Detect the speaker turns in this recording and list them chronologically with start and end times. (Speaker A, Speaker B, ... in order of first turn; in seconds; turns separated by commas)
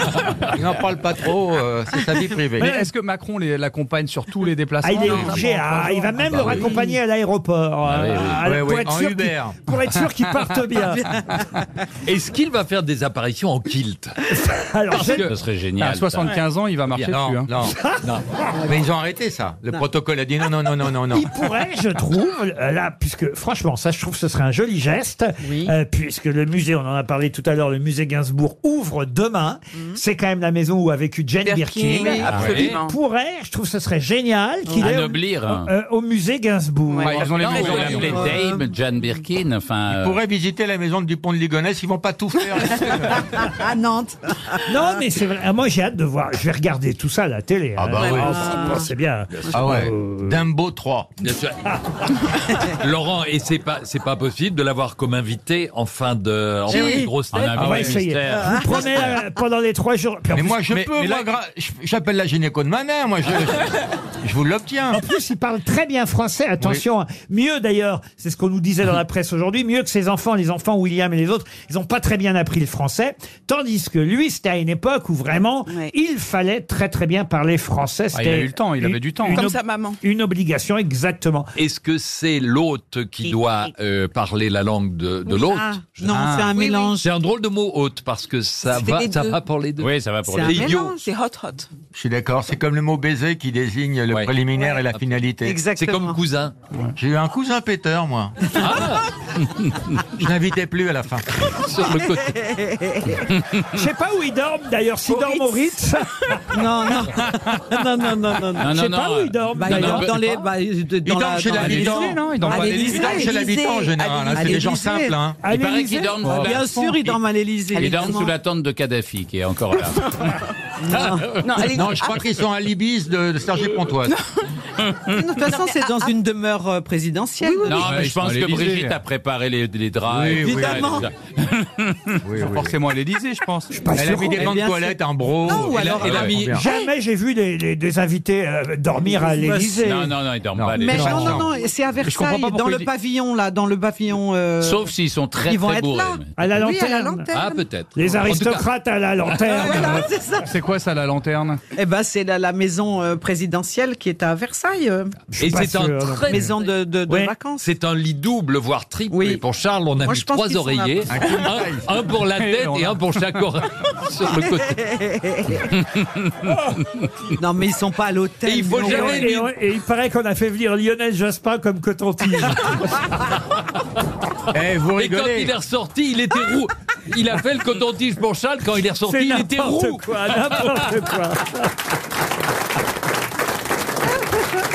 Speaker A: 0.5-2.8, Speaker B: 2.6-6.1, Speaker C: 4.8-11.2, Speaker A: 5.1-5.4, Speaker D: 6.4-6.9, Speaker E: 7.9-8.4, Speaker A: 8.4-9.6, Speaker D: 10.8-11.4, Speaker F: 12.1-14.2, Speaker C: 14.3-15.3, Speaker F: 14.9-15.3, Speaker E: 15.2-16.3, Speaker B: 15.8-17.5, Speaker A: 17.0-17.8, Speaker C: 17.7-18.1, Speaker A: 18.7-21.3, Speaker C: 21.1-38.0, Speaker D: 25.4-25.7, Speaker G: 31.4-33.0, Speaker D: 31.9-32.3, Speaker E: 32.3-32.7, Speaker F: 32.4-32.7, Speaker E: 34.8-35.7, Speaker G: 36.9-37.2, Speaker B: 37.1-38.2, Speaker E: 37.1-40.2, Speaker D: 37.8-38.6, Speaker A: 39.9-43.4, Speaker D: 42.9-44.7, Speaker C: 44.7-50.4, Speaker A: 47.9-48.4, Speaker F: 48.0-48.2, Speaker D: 48.0-48.9, Speaker A: 49.5-51.2, Speaker F: 51.2-51.8, Speaker F: 52.5-58.0, Speaker D: 56.7-57.1, Speaker E: 57.3-59.2, Speaker C: 57.5-60.8, Speaker D: 58.3-59.1, Speaker A: 60.3-65.0, Speaker C: 64.9-81.5, Speaker G: 75.7-75.9, Speaker B: 78.1-79.5, Speaker G: 79.3-80.0, Speaker F: 81.6-86.1, Speaker G: 83.2-83.7, Speaker D: 85.3-87.1, Speaker B: 86.1-86.5, Speaker G: 86.5-86.9, Speaker F: 87.0-89.9, Speaker G: 88.7-89.4, Speaker E: 89.8-90.7, Speaker D: 90.3-91.0, Speaker F: 90.5-91.0, Speaker G: 90.6-91.7, Speaker A: 91.9-95.6, Speaker D: 95.5-96.2, Speaker F: 95.7-96.5, Speaker A: 97.0-98.5, Speaker F: 98.5-99.1, Speaker E: 99.6-100.0, Speaker A: 100.2-101.3, Speaker F: 101.5-102.4, Speaker D: 102.3-103.2, Speaker C: 103.7-106.6, Speaker D: 105.1-105.4, Speaker D: 106.5-108.7, Speaker E: 108.6-110.4, Speaker C: 108.6-110.1, Speaker D: 109.6-113.5, Speaker A: 111.0-115.4, Speaker B: 111.5-113.0, Speaker G: 113.0-114.5, Speaker D: 114.3-115.2, Speaker C: 115.4-116.5, Speaker E: 115.5-117.2, Speaker D: 116.3-118.3, Speaker G: 117.7-118.2, Speaker E: 117.8-120.3, Speaker D: 120.8-121.4, Speaker G: 121.4-122.4, Speaker A: 121.6-124.2, Speaker G: 123.6-124.3, Speaker D: 125.1-127.9, Speaker G: 125.4-126.2, Speaker G: 127.4-127.9, Speaker E: 127.7-132.2, Speaker B: 127.8-129.0, Speaker A: 130.1-131.1, Speaker D: 130.4-131.1, Speaker A: 132.2-132.8, Speaker B: 132.5-133.9, Speaker C: 133.7-134.5, Speaker A: 133.9-136.7, Speaker D: 134.3-136.8, Speaker F: 135.8-136.6, Speaker C: 136.5-140.1, Speaker D: 139.1-140.1, Speaker E: 139.8-141.5, Speaker A: 140.6-141.5, Speaker D: 140.8-144.9, Speaker B: 142.0-142.9, Speaker E: 144.6-146.3, Speaker D: 145.4-147.6, Speaker C: 146.4-147.3, Speaker F: 147.3-148.7, Speaker C: 147.9-150.1, Speaker D: 149.4-150.5, Speaker B: 150.4-151.6, Speaker D: 151.8-155.2, Speaker C: 155.3-156.6, Speaker F: 155.4-156.6, Speaker D: 156.3-157.7, Speaker C: 157.1-157.3, Speaker F: 157.6-164.9, Speaker D: 159.1-159.4, Speaker D: 160.0-161.2, Speaker A: 161.1-161.9, Speaker B: 162.3-163.4, Speaker D: 164.9-165.7, Speaker D: 167.4-169.3, Speaker F: 168.4-169.5, Speaker C: 168.8-172.9, Speaker A: 174.5-175.5, Speaker F: 175.0-180.9, Speaker C: 179.1-181.7